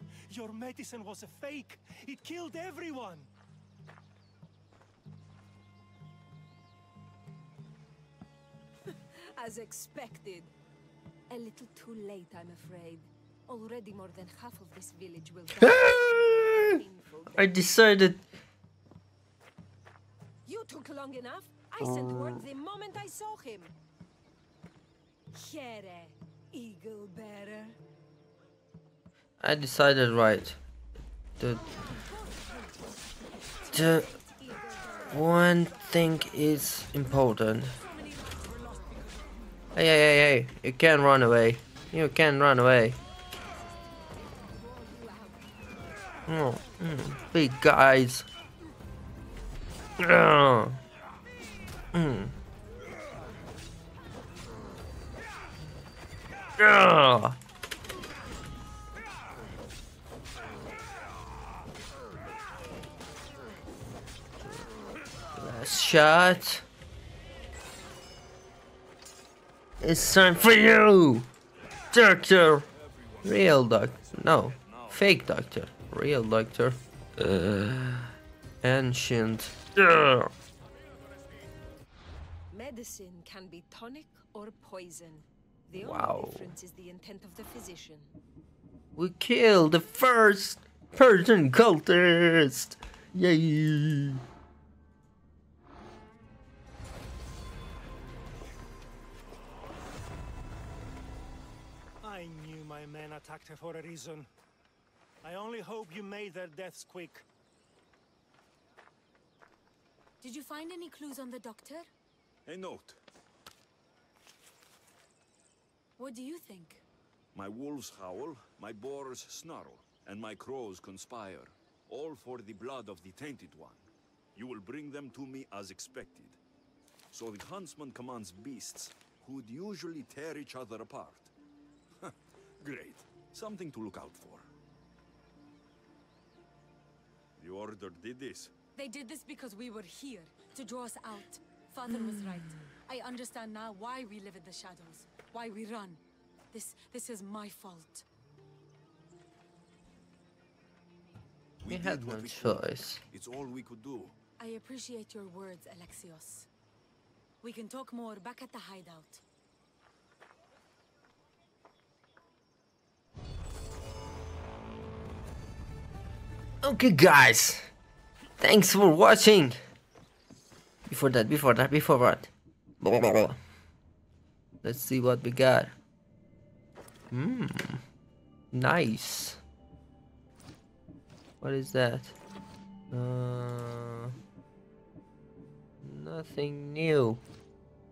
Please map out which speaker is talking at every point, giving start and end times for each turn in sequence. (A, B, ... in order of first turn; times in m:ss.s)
0:00.3-0:03.3 A
0:08.9-0:10.5 B
0:11.3-0:17.7 B
0:15.6-0:16.8 C
0:17.3-0:18.2 C
0:20.4-0:23.7 B
0:21.8-0:22.4 C
0:25.3-0:27.8 B
0:29.4-0:30.6 C
0:31.4-0:31.7 C
0:31.4-0:36.3 B
0:33.7-0:34.1 C
0:35.1-0:37.8 C
0:36.9-0:39.6 B
0:39.7-0:43.0 C
0:43.3-0:45.8 B
0:46.3-0:48.2 C
0:50.0-0:50.8 C
0:51.9-0:52.3 C
0:56.6-0:57.4 C
1:05.3-1:06.6 C
1:09.8-1:11.3 C
1:11.9-1:12.7 C
1:12.7-1:15.2 D
1:13.2-1:20.3 C
1:22.5-1:28.1 B
1:25.7-1:26.5 C
1:29.0-1:34.2 C
1:42.0-1:44.3 A
1:45.2-1:47.2 A
1:50.2-1:51.9 E
1:52.4-1:53.0 D
1:56.0-1:56.8 E
1:57.3-2:06.4 D
2:07.1-2:11.3 D
2:12.0-2:14.5 D
2:17.4-2:18.5 D
2:18.7-2:28.0 E
2:21.9-2:22.6 C
2:31.6-2:34.1 D
2:31.7-2:33.0 C
2:34.4-2:36.5 E
2:37.4-2:39.2 E
2:46.6-2:47.7 C
2:48.4-2:49.6 C
2:50.9-2:53.4 C
2:54.6-2:55.7 C
2:57.1-2:57.8 C
2:58.5-2:59.4 C
3:01.4-3:02.1 C
3:02.9-3:04.2 C
3:05.8-3:07.2 C